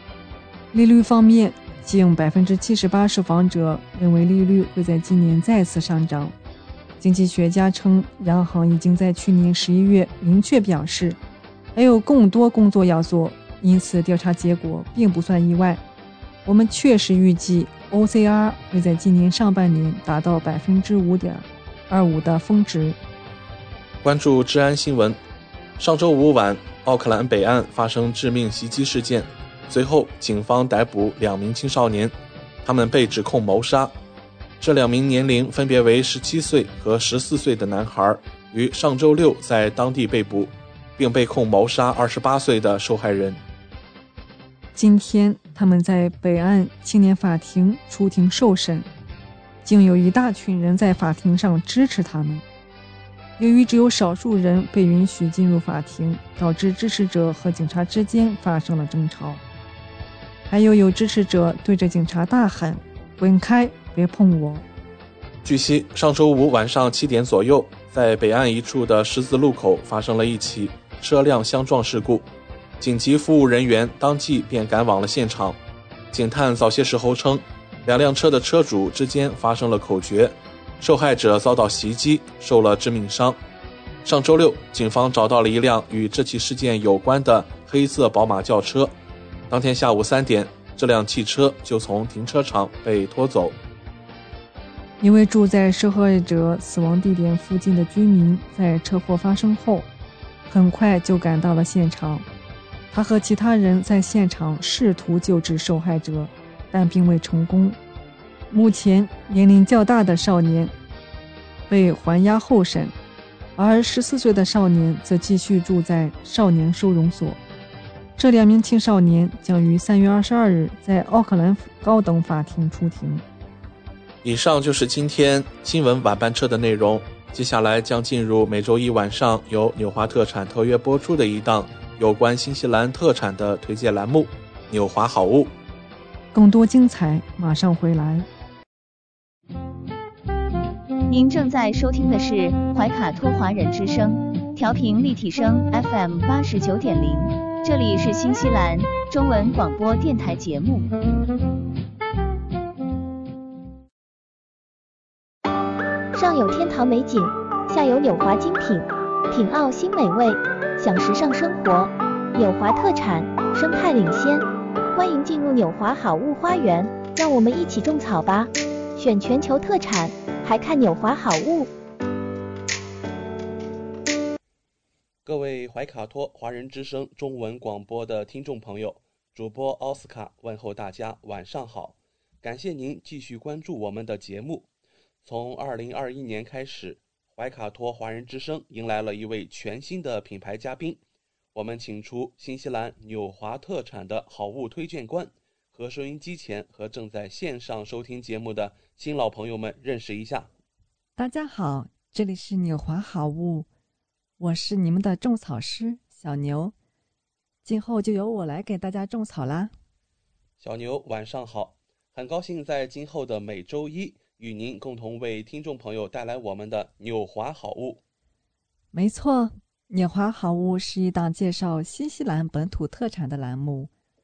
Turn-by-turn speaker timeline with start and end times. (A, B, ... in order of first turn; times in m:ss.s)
0:00.7-0:06.4 A
0:07.0-0:11.2 A
0:11.7-0:15.8 A
0:16.4-0:23.0 A
0:24.0-0:25.2 B
0:25.8-0:32.1 B
0:32.6-0:33.9 B
0:34.6-0:43.4 B
0:44.8-0:48.9 A
0:49.6-0:52.4 A
0:53.4-0:59.4 A
1:00.5-1:04.6 A
1:05.4-1:12.3 B
1:12.8-1:15.6 B
1:16.1-1:23.4 B
1:24.0-1:28.9 B
1:29.5-1:33.6 B
1:35.0-1:39.9 A
1:40.5-1:42.3 A
1:42.9-1:47.8 A
1:48.5-1:50.7 A
1:51.7-1:52.9 A
1:53.6-1:57.4 A
1:58.2-2:03.2 A
2:04.2-2:15.5 B
2:16.3-2:18.3 A
2:21.1-2:30.9 C
2:36.2-2:51.7 D
2:55.2-3:04.7 B
3:05.2-3:11.0 B
3:11.5-3:20.5 B
3:21.2-3:23.7 A
3:24.4-3:26.7 A
3:27.6-3:29.7 A
3:30.6-3:38.0 B
3:38.9-3:43.9 A